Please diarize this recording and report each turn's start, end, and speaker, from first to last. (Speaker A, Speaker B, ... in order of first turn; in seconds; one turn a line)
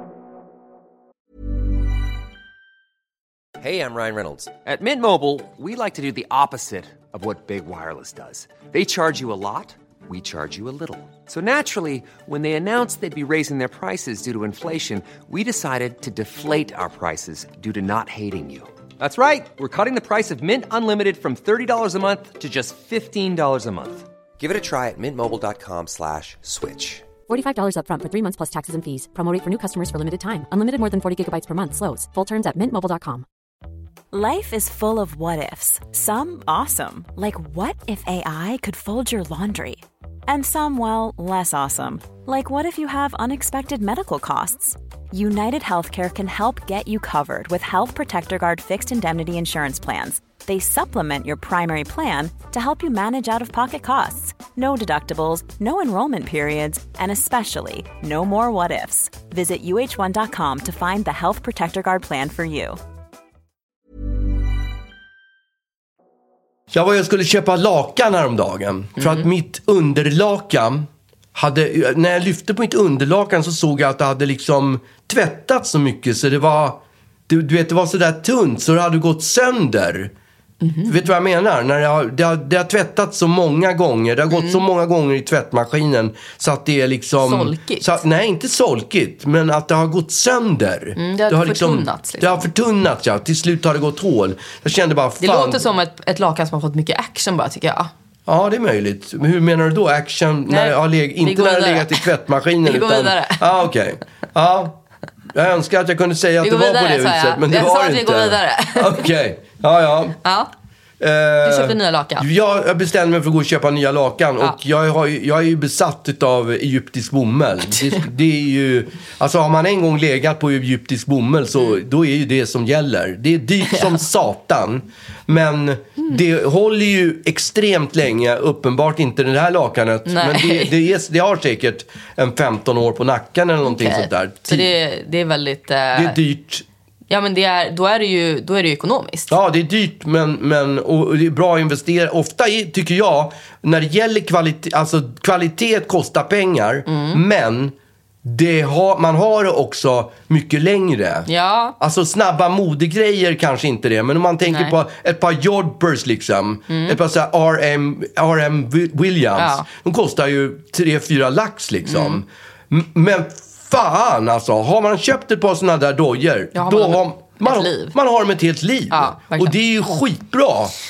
Speaker A: 3.6-27.1
Speaker B: 27.3-33.2
Speaker C: 34.1-62.8
Speaker D: 66.7-80.1
Speaker E: 69.0-69.3
Speaker E: 80.6-81.0
Speaker D: 80.8-95.7
Speaker E: 84.3-84.6
Speaker E: 87.2-88.0
Speaker E: 91.0-92.5
Speaker E: 95.2-97.9
Speaker D: 98.3-104.8
Speaker E: 100.5-102.1
Speaker E: 102.6-103.5
Speaker D: 105.3-110.2
Speaker E: 106.4-109.1
Speaker E: 110.2-110.5
Speaker D: 111.0-134.7
Speaker E: 111.4-112.2
Speaker E: 130.1-130.8
Speaker E: 133.6-136.2
Speaker D: 135.9-136.6
Speaker E: 137.1-139.3
Speaker D: 139.3-151.3
Speaker E: 146.9-147.2
Speaker E: 151.3-151.8
Speaker D: 151.8-170.7
Speaker E: 154.5-154.7
Speaker E: 156.7-157.0
Speaker E: 159.4-159.7
Speaker E: 161.8-162.2
Speaker E: 166.5-167.9
Speaker E: 168.9-169.6